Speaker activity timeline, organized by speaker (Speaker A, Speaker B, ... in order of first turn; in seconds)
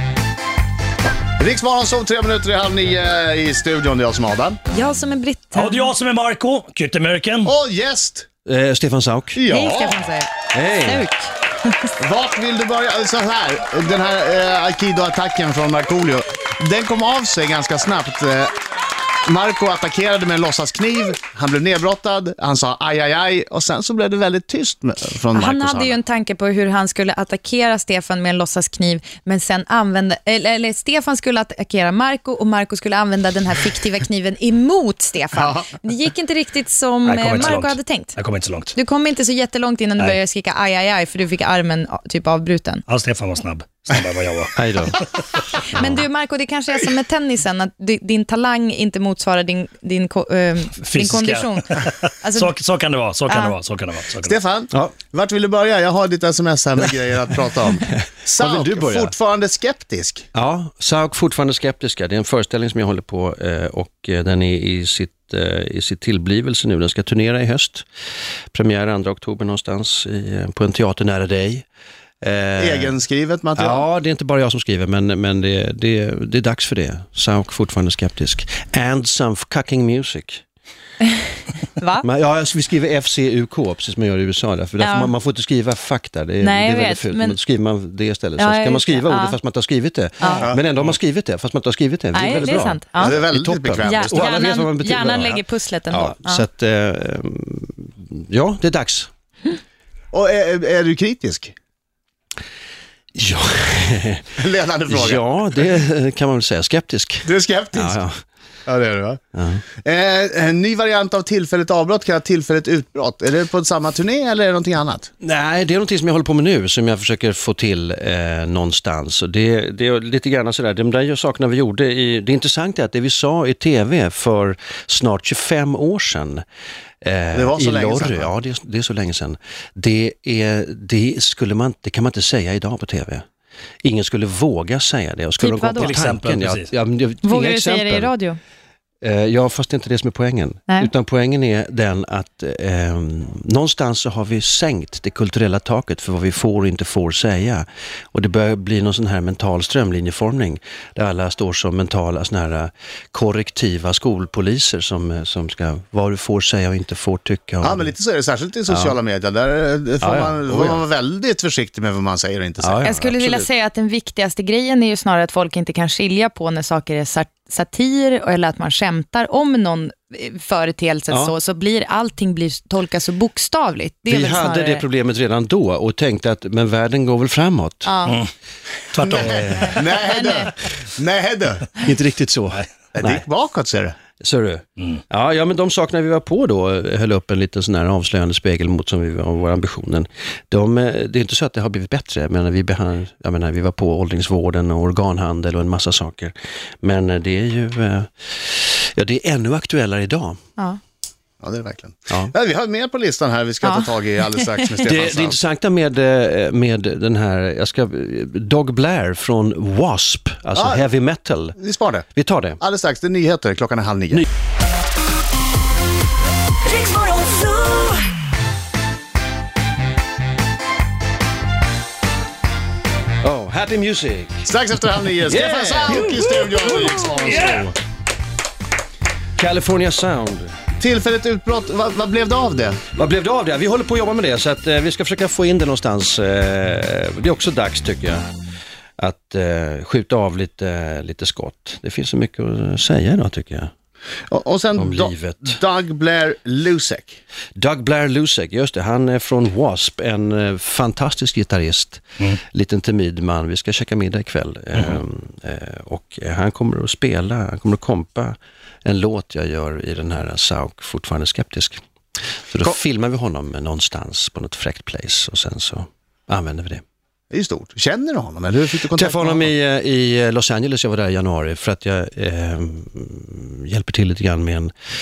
Speaker A: 1.4-4.6, 7.4-8.3, 9.3-10.0, 12.0-18.5, 19.2-26.0, 54.3-60.3, 72.6-73.8, 93.0-94.3, 100.1-101.5, 104.4-105.2, 107.2-108.0, 108.7-109.2, 109.8-115.1, 127.3-128.3, 157.6-163.0, 179.0-181.7, 182.9-183.9, 201.4-205.4, 210.5-210.8, 211.6-214.2, 224.4-227.8, 230.8-232.8, 244.3-247.2, 267.3-269.5
Speaker B: 4.7-5.9, 9.4-11.9, 25.3-38.2, 38.7-42.8, 45.6-52.5, 53.3-53.5, 81.8-82.0, 84.8-85.1, 86.4-87.4, 88.4-89.3, 90.2-90.5, 92.1-93.2, 93.8-96.4, 135.4-136.0, 137.2-138.4, 162.8-174.8, 177.8-178.2, 203.6-204.5
Speaker C: 5.5-7.5, 37.0-38.7, 42.9-45.1, 50.8-54.3, 135.8-136.7, 178.9-179.5, 217.2-217.4, 227.1-227.6
Speaker D: 8.4-9.4, 10.5-11.1, 44.5-45.0, 45.7-46.0, 57.9-59.1, 60.3-67.8, 68.5-71.7, 72.2-72.9, 73.5-80.4, 82.0-99.1, 103.1-104.3, 104.9-108.1, 109.3-109.6, 115.2-126.4, 127.0-133.2, 133.8-138.1, 139.0-157.9, 158.7-159.0, 160.0-160.8, 162.6-163.5, 174.1-177.9, 179.1-179.9, 181.8-183.2, 184.2-200.4, 204.8-211.6, 212.1-212.6, 223.2-224.5, 225.2-227.1, 229.4-230.6, 232.9-238.3, 239.0-243.7, 244.8-245.6, 247.6-261.8, 262.5-266.8, 268.9-274.7